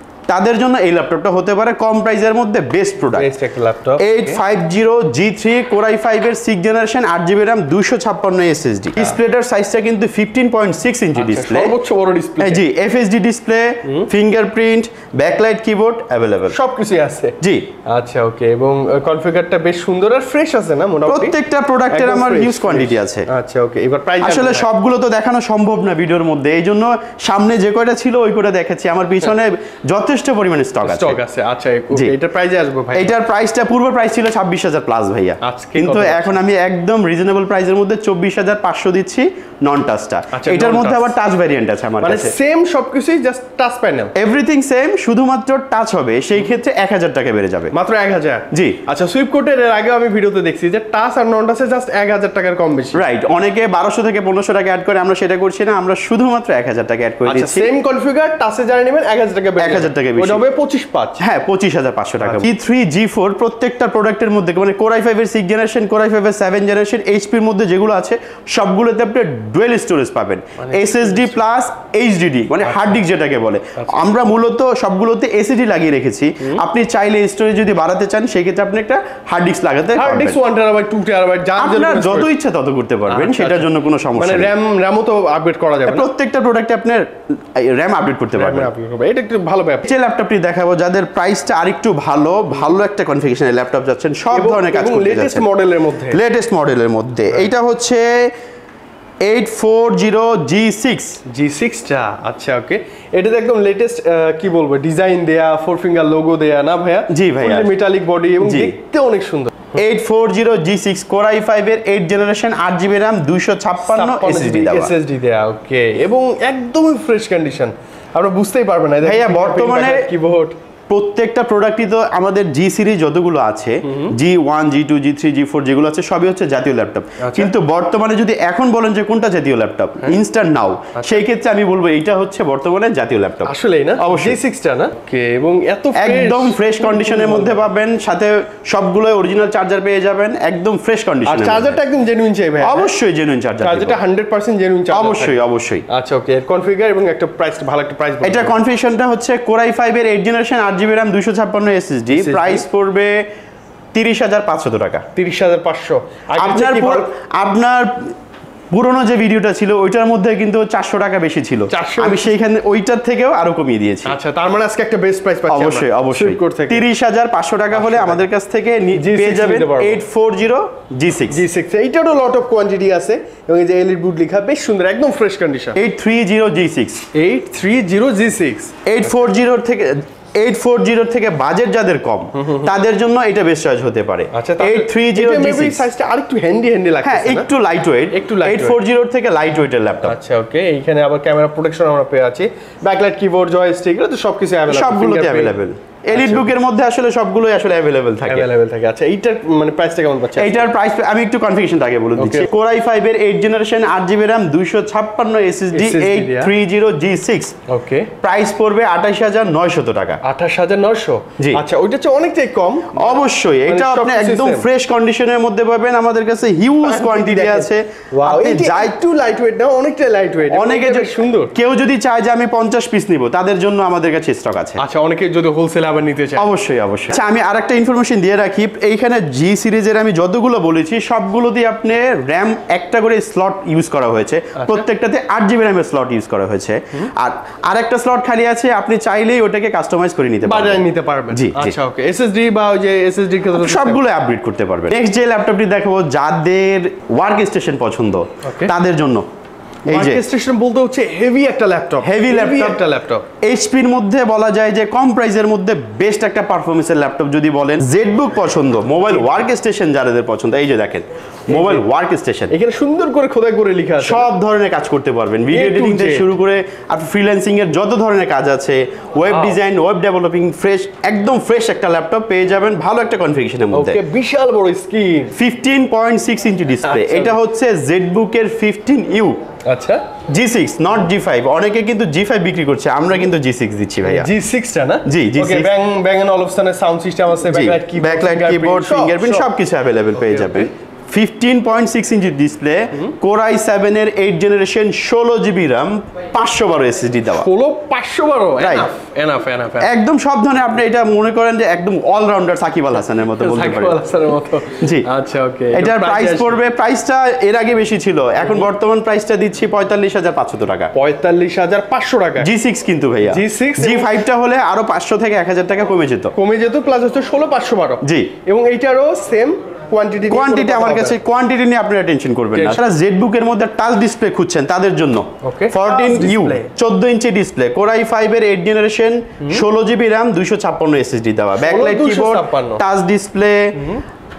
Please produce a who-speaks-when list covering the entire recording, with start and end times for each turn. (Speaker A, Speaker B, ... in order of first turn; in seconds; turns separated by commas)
Speaker A: 0.3-3.3, Speaker B: 3.1-4.4, Speaker A: 4.0-11.8, Speaker B: 11.1-12.6, Speaker A: 12.4-16.6, Speaker B: 16.5-21.4, Speaker A: 17.4-17.7, Speaker A: 21.1-23.3, Speaker B: 21.9-24.7, Speaker A: 24.2-31.2, Speaker B: 30.8-33.1, Speaker A: 32.9-42.3, Speaker B: 35.4-36.4, Speaker B: 40.3-41.1, Speaker B: 42.0-44.1, Speaker A: 44.1-47.7, Speaker B: 47.7-53.0, Speaker A: 48.5-48.8, Speaker A: 52.9-57.7, Speaker B: 57.2-61.2, Speaker A: 59.6-60.4, Speaker A: 61.2-80.4, Speaker B: 62.2-62.5, Speaker B: 70.6-71.4, Speaker B: 72.6-73.0, Speaker B: 73.8-74.1, Speaker B: 80.0-82.3, Speaker A: 81.6-84.5, Speaker B: 83.1-86.1, Speaker A: 85.8-88.7, Speaker B: 88.3-89.9, Speaker A: 89.8-95.5, Speaker B: 94.3-96.2, Speaker A: 96.1-98.3, Speaker A: 99.2-101.2, Speaker B: 101.3-109.7, Speaker A: 107.1-107.7, Speaker A: 108.4-108.8, Speaker A: 109.7-114.9, Speaker B: 113.8-120.6, Speaker A: 119.0-120.1, Speaker A: 120.9-134.4, Speaker B: 123.8-124.1, Speaker B: 127.2-127.5, Speaker B: 130.9-131.2, Speaker B: 133.4-137.6, Speaker A: 135.9-141.8, Speaker B: 141.2-142.9, Speaker A: 142.6-144.0, Speaker B: 143.6-145.4, Speaker A: 144.9-145.8, Speaker B: 145.9-148.6, Speaker A: 148.2-153.3, Speaker B: 152.1-152.6, Speaker A: 153.9-155.1, Speaker B: 155.1-157.1, Speaker A: 156.4-158.1, Speaker A: 158.7-164.2, Speaker B: 161.7-162.4, Speaker B: 164.0-166.8, Speaker A: 165.5-171.4, Speaker B: 167.7-168.2, Speaker B: 168.9-170.0, Speaker B: 171.3-175.8, Speaker A: 175.7-177.0, Speaker B: 177.1-178.7, Speaker A: 178.8-185.9, Speaker B: 182.4-182.7, Speaker B: 184.3-187.5, Speaker A: 187.0-190.2, Speaker B: 188.1-188.8, Speaker B: 190.0-195.6, Speaker A: 194.7-198.5, Speaker B: 196.1-196.5, Speaker B: 198.2-200.7, Speaker A: 200.4-207.6, Speaker B: 202.2-202.5, Speaker B: 205.7-206.5, Speaker B: 207.7-208.1, Speaker A: 208.2-210.2, Speaker B: 210.2-214.7, Speaker A: 211.4-211.6, Speaker A: 212.9-219.0, Speaker B: 216.8-221.5, Speaker A: 220.5-224.8, Speaker B: 224.8-226.5, Speaker A: 226.4-241.8, Speaker B: 234.6-234.8, Speaker B: 240.4-244.0, Speaker A: 243.5-249.2, Speaker B: 248.4-248.7, Speaker B: 249.9-253.3, Speaker A: 249.9-250.2, Speaker A: 252.0-252.8, Speaker A: 253.4-262.5, Speaker B: 261.5-261.8, Speaker B: 262.5-264.3, Speaker A: 264.0-274.0, Speaker B: 265.5-266.3, Speaker B: 269.3-269.6, Speaker B: 273.7-275.4, Speaker A: 275.3-279.4, Speaker B: 276.8-277.4, Speaker B: 279.6-280.0, Speaker A: 280.3-284.3, Speaker B: 284.0-289.5, Speaker A: 285.0-285.7, Speaker A: 287.5-297.5, Speaker B: 290.2-290.7, Speaker B: 297.3-299.9, Speaker A: 298.6-298.9, Speaker A: 299.8-304.0, Speaker B: 303.2-306.6, Speaker A: 304.8-305.1, Speaker A: 305.7-310.9, Speaker B: 308.4-308.7, Speaker B: 310.9-312.5, Speaker A: 312.4-316.3, Speaker B: 313.2-314.2, Speaker B: 316.3-321.2, Speaker A: 318.0-318.3, Speaker A: 320.3-333.8, Speaker B: 322.5-322.8, Speaker B: 325.4-326.7, Speaker B: 331.6-332.8, Speaker B: 333.8-334.0